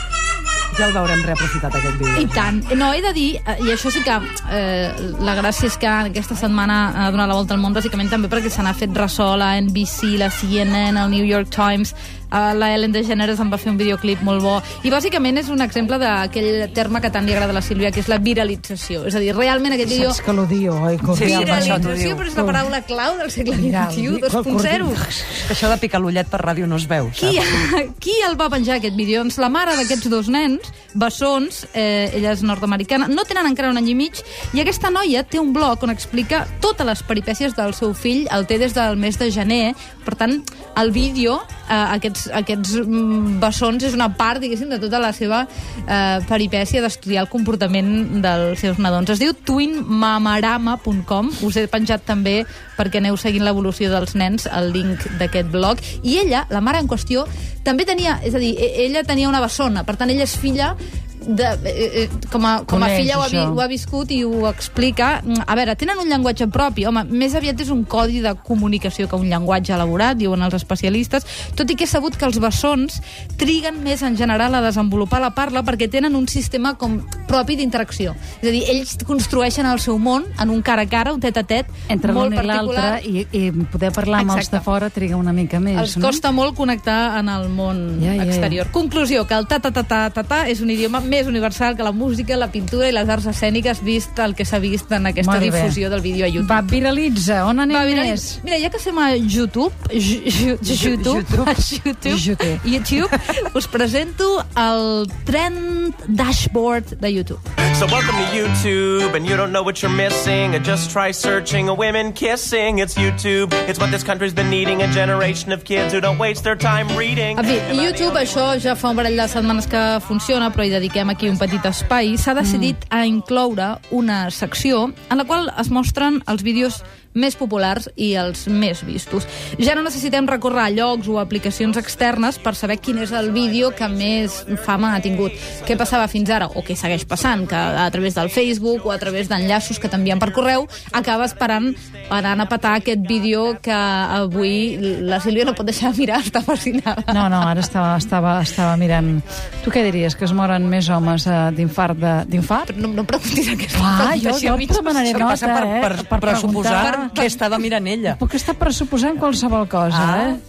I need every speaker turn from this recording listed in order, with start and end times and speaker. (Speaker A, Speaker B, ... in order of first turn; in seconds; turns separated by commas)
Speaker A: 0.7-2.5, Speaker B: 2.1-20.2, Speaker C: 19.9-22.7, Speaker A: 21.1-22.3, Speaker B: 21.2-25.1, Speaker C: 23.5-25.7, Speaker A: 25.4-27.4, Speaker B: 27.2-83.0, Speaker C: 62.7-63.6, Speaker C: 81.9-86.2, Speaker B: 84.1-84.7, Speaker B: 85.7-96.7, Speaker C: 88.0-88.6, Speaker C: 95.2-95.8, Speaker C: 96.4-98.4, Speaker B: 97.7-107.4, Speaker A: 100.6-101.6, Speaker C: 102.0-102.6, Speaker D: 107.7-118.5, Speaker B: 117.3-147.5, Speaker C: 122.4-122.7, Speaker C: 147.1-152.7, Speaker B: 152.6-155.2, Speaker C: 153.7-157.1, Speaker A: 155.1-158.2, Speaker B: 156.7-157.6, Speaker C: 158.1-160.4, Speaker A: 159.9-160.4